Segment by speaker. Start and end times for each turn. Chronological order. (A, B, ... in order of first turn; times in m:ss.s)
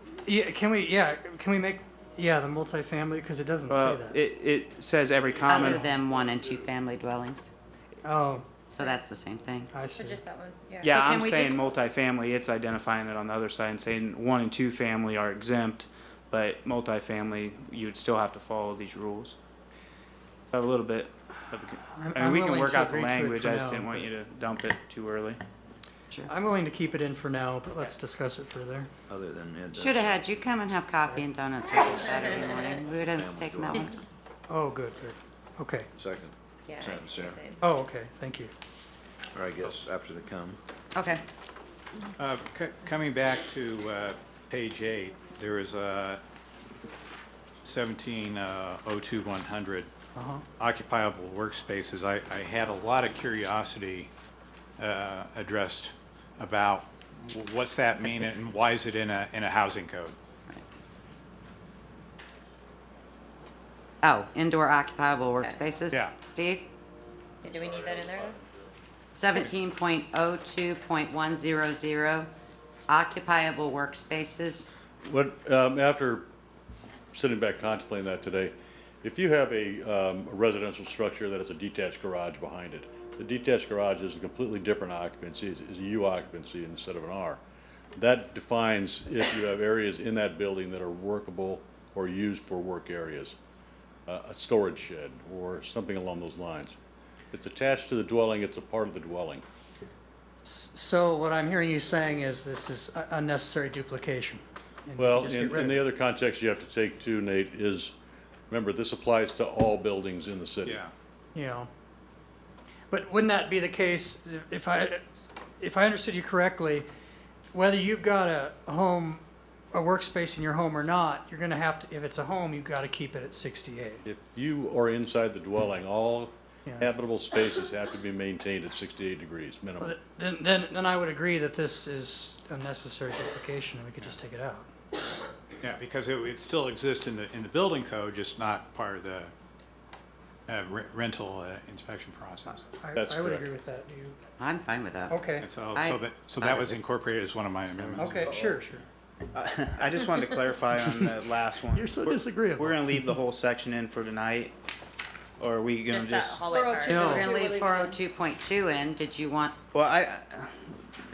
0:00.2-0:04.2 A
0:03.7-0:05.9 B
0:05.4-0:07.5 C
0:08.0-0:08.5 A
0:08.7-0:09.7 C
0:09.7-0:10.2 A
0:09.9-0:10.9 D
0:10.8-0:19.3 B
0:10.8-0:11.6 C
0:20.5-0:25.4 B
0:22.0-0:24.1 A
0:26.3-0:28.9 A
0:29.1-0:30.2 E
0:29.8-0:33.9 C
0:33.1-0:34.0 E
0:34.5-0:35.9 A
0:36.0-0:37.4 E
0:36.7-0:37.6 D
0:37.6-0:38.5 A
0:39.3-0:40.6 E
0:40.9-0:41.2 C
0:42.2-0:46.2 F
0:47.6-0:49.9 F
0:50.2-0:50.4 A
0:50.6-0:54.1 F
0:54.8-1:00.2 F
1:04.0-1:06.7 C
1:05.9-1:06.2 F
1:07.4-1:08.4 D
1:09.1-1:12.3 C
1:12.9-1:14.7 C
1:15.0-1:16.2 G
1:17.1-1:27.4 G
1:28.0-1:33.4 G
1:34.0-1:36.8 G
1:37.3-1:39.4 G
1:40.4-1:45.8 A
1:45.0-1:47.9 G
1:48.5-1:50.8 G
1:50.6-1:50.9 F
1:51.3-1:51.7 A
1:52.9-1:55.0 A
1:55.6-1:56.8 A
1:57.5-2:04.0 A
2:04.0-2:09.9 G
2:09.8-2:14.7 A
2:15.6-2:19.3 F
2:20.5-2:22.7 F
2:22.8-2:24.2 A
2:22.9-2:23.4 G
2:24.4-2:26.8 C
2:25.1-2:25.5 A
2:25.4-2:28.3 F
2:27.7-2:28.0 C
2:27.9-2:28.8 A
2:28.2-2:28.6 E
2:29.3-2:34.5 B
2:31.7-2:33.1 A
2:35.4-2:36.5 B
2:35.9-2:38.0 D
2:36.9-2:37.3 A
2:36.9-2:39.5 C
2:39.7-2:40.7 B